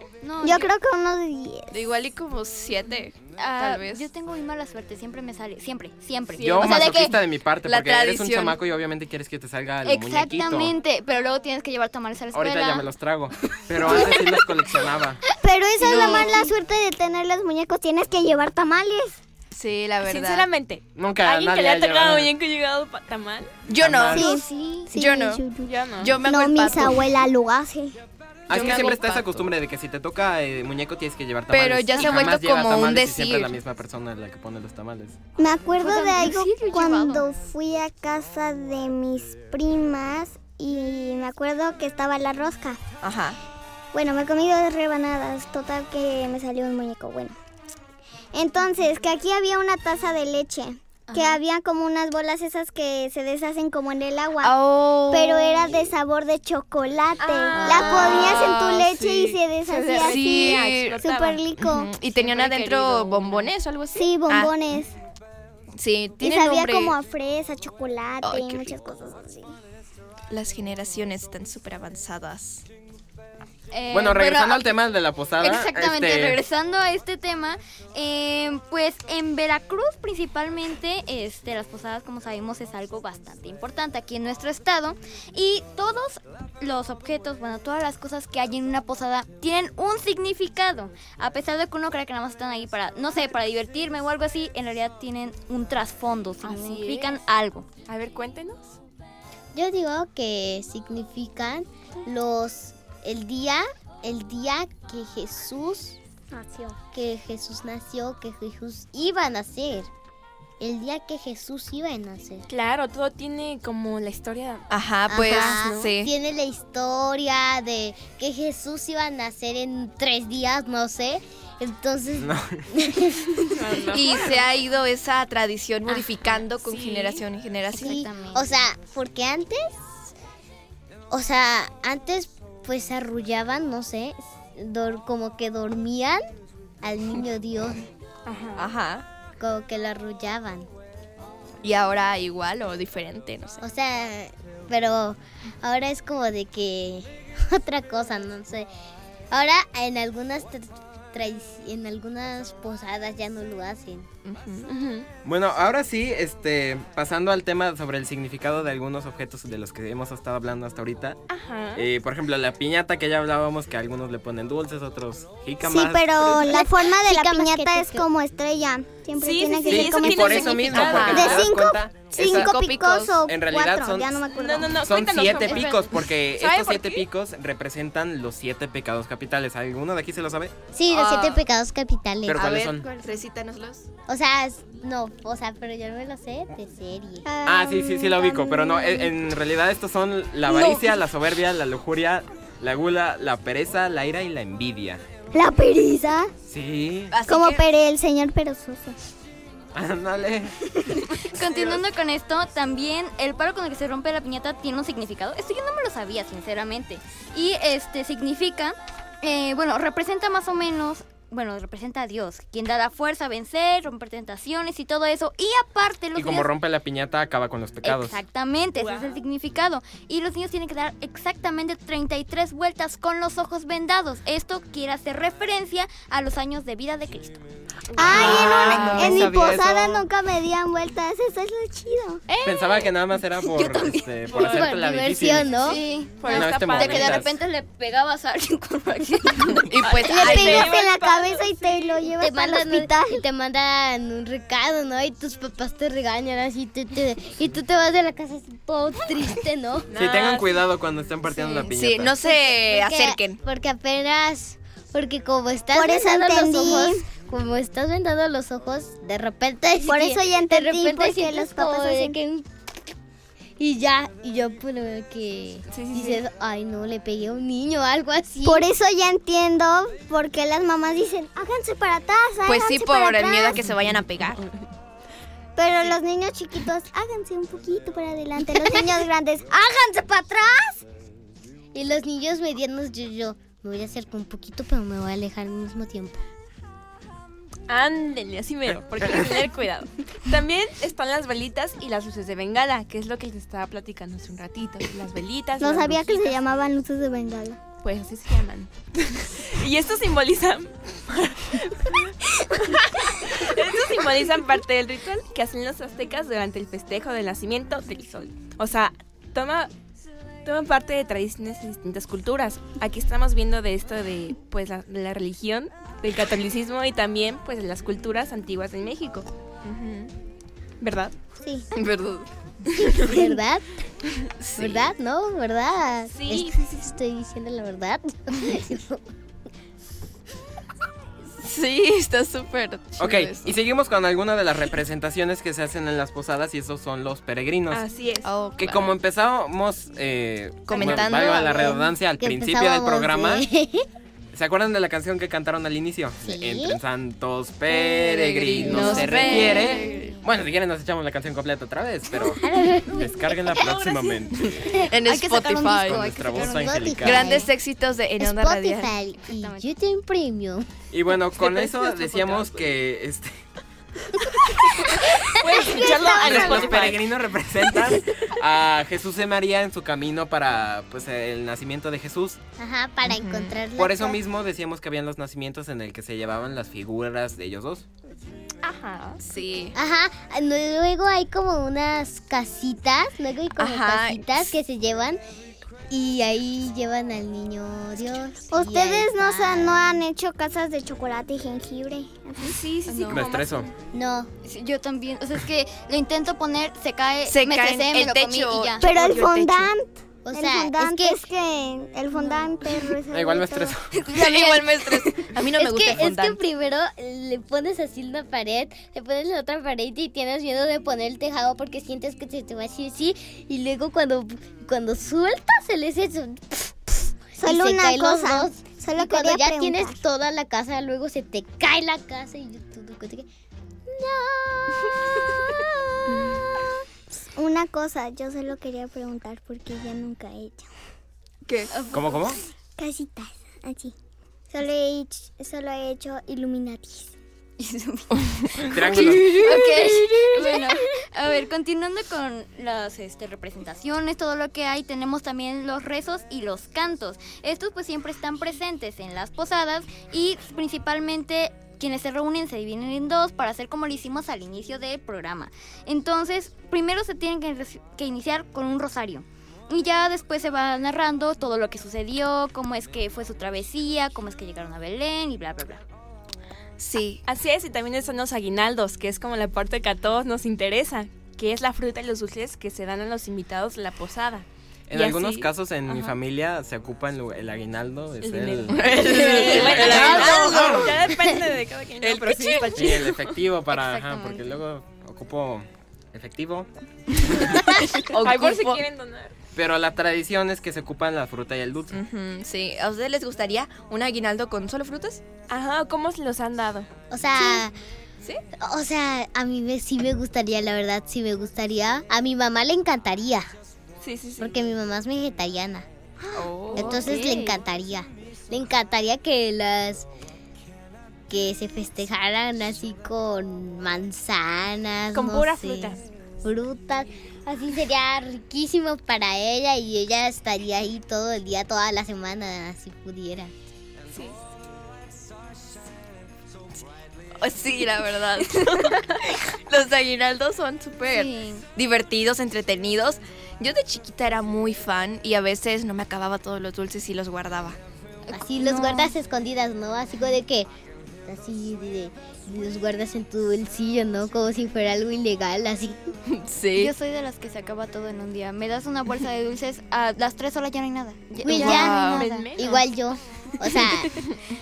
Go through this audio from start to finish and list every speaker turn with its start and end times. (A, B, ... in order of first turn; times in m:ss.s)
0:00.2-0:00.7 A
0:00.4-0:01.9 B
0:01.7-0:04.1 C
0:03.4-0:07.2 A
0:06.4-0:06.7 D
0:06.4-0:10.7 E
0:06.4-0:07.1 C
0:07.6-0:08.6 C
0:09.8-0:12.9 A
0:12.3-0:15.2 E
0:13.8-0:14.2 A
0:15.4-0:19.2 B
0:15.8-0:16.3 C
0:15.9-0:16.5 A
0:19.5-0:20.5 C
0:20.0-0:23.5 D
0:21.0-0:22.3 E
0:23.7-0:24.3 C
0:23.8-0:24.3 E
0:24.1-0:25.7 B
0:24.3-0:24.9 A
0:24.9-0:25.4 C
0:25.6-0:26.2 D
0:26.0-0:27.1 C
0:26.2-0:28.0 B
0:28.5-0:29.5 C
0:28.5-0:35.2 E
0:31.5-0:33.5 C
0:35.4-0:42.8 B
0:35.8-0:37.2 A
0:43.0-0:43.4 C
0:43.9-0:47.4 B
0:48.3-1:01.9 B
0:51.1-0:51.4 A
0:54.4-0:55.9 C
0:57.2-0:58.5 D
0:57.4-1:01.0 C
0:59.7-1:01.4 D
1:01.6-1:04.6 C
1:02.2-1:03.5 D
1:04.0-1:05.0 B
1:05.8-1:07.0 C
1:06.2-1:09.5 B
1:08.2-1:08.8 C
1:10.3-1:12.6 C
1:13.7-1:14.7 A
1:13.9-1:16.4 E
1:15.4-1:37.7 A
1:36.4-1:37.2 D
1:37.9-1:38.8 D
1:39.6-1:46.0 F
1:46.3-1:46.8 B
1:46.9-1:49.9 F
1:50.6-1:52.5 F
1:52.5-1:54.7 D
1:54.7-1:56.1 C
1:55.1-2:03.6 F
1:55.2-1:55.8 D
2:02.2-2:02.7 E
2:03.5-2:04.3 D
2:03.9-2:08.0 C
2:06.5-2:07.2 D
2:07.7-2:08.5 A
2:07.8-2:09.9 F
2:11.1-2:16.2 F
2:16.8-2:17.8 F
2:18.3-2:18.7 D
2:18.6-2:19.0 C
2:19.4-2:20.7 F
2:21.6-2:23.6 C
2:23.6-2:28.7 F
2:29.3-2:34.1 F
2:34.2-2:34.7 C
2:34.7-2:35.1 D
2:35.2-2:41.2 E
2:41.3-2:41.9 D
2:41.8-2:46.6 E
2:45.6-2:54.8 B
2:46.4-2:48.1 F
2:49.2-2:51.4 D
2:49.7-2:52.6 E
2:50.4-2:51.5 C
2:52.1-2:53.2 C
2:53.2-2:54.2 E
2:54.3-2:57.0 D
2:54.8-3:00.6 E
3:00.7-3:02.5 F
3:00.9-3:01.4 C
3:02.3-3:02.8 E
3:02.3-3:03.9 C
3:04.1-3:07.3 F
3:07.2-3:09.2 B
3:07.4-3:15.0 E
3:15.3-3:16.3 B
3:16.5-3:17.1 E
3:17.1-3:17.6 C
3:17.2-3:19.0 B
3:19.7-3:21.0 E
3:21.2-3:36.5 A
3:36.2-3:38.2 E
3:37.8-3:47.4 A
3:38.8-3:39.2 D
3:48.0-3:52.2 B
3:48.0-3:50.0 E
3:48.0-3:49.3 C
3:52.3-3:52.7 A
3:52.4-3:55.5 E
3:53.4-3:54.1 A
3:54.3-3:55.8 F
3:54.4-3:54.6 D
3:55.5-3:59.7 A
3:56.2-3:57.2 D
3:56.3-3:57.3 E
3:59.7-4:00.8 C
3:59.8-4:02.0 D
4:00.1-4:03.2 B
4:02.2-4:09.9 F
4:09.9-4:10.6 D
4:10.0-4:12.2 E
4:11.4-4:13.4 C
4:12.2-4:22.5 F
4:15.7-4:17.1 B
4:19.8-4:22.2 B
4:23.6-4:28.7 F
4:25.7-4:26.2 D
4:28.4-4:33.6 B
4:32.5-4:34.4 C
4:35.6-4:39.6 B
4:39.6-4:40.8 F
4:41.7-4:46.2 F
4:47.7-4:56.4 D
4:55.6-4:57.6 B
4:57.8-5:09.7 D
5:10.4-5:19.3 D
5:19.6-5:20.1 C
5:20.8-5:21.1 D
5:21.8-5:23.3 C
5:23.0-5:23.6 F
5:24.4-5:24.9 C
5:24.6-5:29.0 F
5:26.1-5:26.7 D
5:31.4-5:33.5 C
5:33.0-5:37.8 E
5:37.7-5:38.3 D
5:38.2-5:38.9 C
5:38.6-5:43.5 E
5:40.7-5:41.6 C
5:40.8-5:43.8 F
5:44.3-5:54.6 E
5:46.2-5:46.8 F
5:48.1-5:49.8 C
5:48.6-5:49.8 D
5:48.7-5:50.2 A
5:52.4-5:53.2 F
5:53.6-5:54.1 D
5:54.4-5:56.0 C
5:55.0-5:57.4 A
5:55.8-5:57.4 E
5:56.5-5:57.5 F
5:57.0-5:58.9 C
5:58.2-6:00.7 F
5:59.3-5:59.7 A
6:00.9-6:03.4 E
6:01.5-6:02.5 D
6:05.3-6:07.0 D
6:05.6-6:06.9 B
6:06.1-6:12.4 E
6:12.6-6:14.2 F
6:13.0-6:13.6 C
6:13.8-6:17.9 E
6:18.6-6:19.8 C
6:19.7-6:25.2 F
6:23.6-6:24.5 C
6:25.9-6:30.0 F
6:28.5-6:32.6 B
6:32.4-6:33.7 D
6:32.9-6:33.2 A
6:33.1-6:33.7 E
6:33.9-6:34.3 F
6:34.4-6:38.9 A
6:37.3-6:39.7 C
6:38.8-6:43.8 B
6:40.2-6:41.2 F
6:43.1-6:44.0 E
6:44.1-6:45.0 A
6:44.1-6:46.4 C
6:45.5-7:03.3 F
6:57.4-7:00.0 B
7:03.9-7:06.3 F
7:07.4-7:10.7 B
7:11.4-7:11.7 C
7:11.7-7:12.2 A
7:11.9-7:12.4 E
7:12.8-7:13.9 B
7:14.5-7:17.1 B
7:17.6-7:45.8 A
7:18.7-7:19.5 E
7:18.9-7:19.6 C
7:46.8-7:47.2 C
7:47.3-7:55.5 D
7:54.9-8:01.1 E
7:55.9-7:56.1 A
7:58.2-8:03.1 D
7:58.7-8:00.9 C
8:02.0-8:06.7 E
8:03.7-8:04.6 A
8:07.8-8:08.8 C
8:08.0-8:09.4 D
8:09.6-8:12.0 E
8:11.9-8:15.2 C
8:15.5-8:16.9 D
8:17.1-8:17.7 F
8:18.6-8:23.5 F
8:24.0-8:24.6 D
8:24.4-8:25.9 F
8:26.3-8:27.1 D
8:26.7-8:30.1 F
8:26.8-8:27.6 A
8:31.3-8:43.5 F
8:35.1-8:36.0 D
8:47.4-8:57.8 C
8:51.1-8:51.6 A
8:58.3-8:59.1 A
8:58.3-9:00.7 F
9:01.3-9:06.0 F
9:06.3-9:06.9 C
9:06.8-9:12.5 A
9:11.4-9:12.5 C
9:11.4-9:14.2 F
9:11.6-9:12.9 D